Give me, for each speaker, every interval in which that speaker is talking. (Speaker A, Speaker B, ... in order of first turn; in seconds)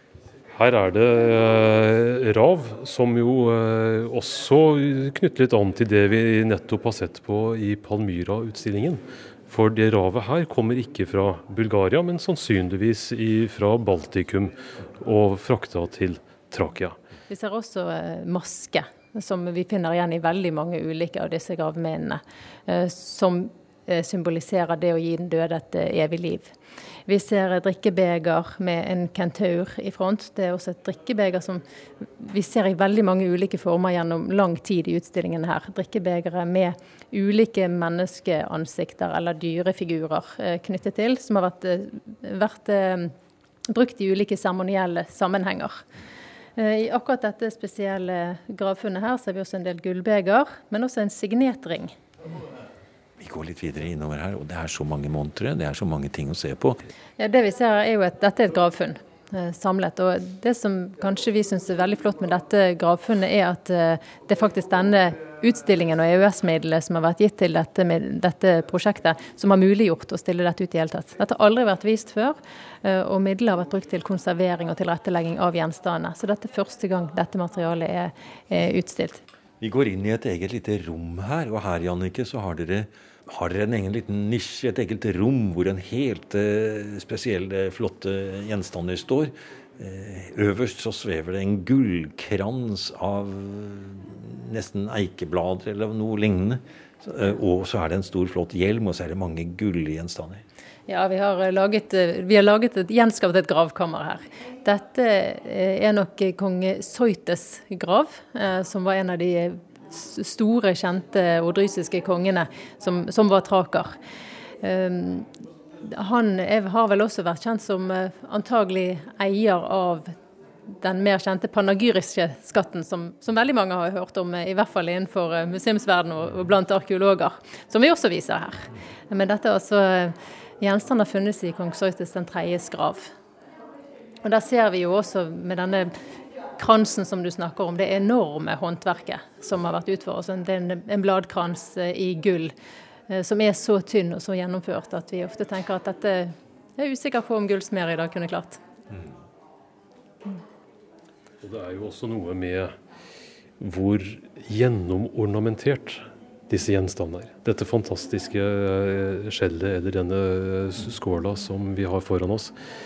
Speaker A: 0.5-17.0, 151.4-152.7, 153.6-162.5
Speaker B: 17.3-26.5, 27.1-43.1, 43.7-45.8, 46.5-51.9, 57.2-79.2, 100.9-113.9, 114.6-115.3, 115.8-120.1, 120.7-133.1, 134.2-135.9, 136.6-142.5, 143.1-148.6
Speaker C: 53.2-56.8, 79.6-100.4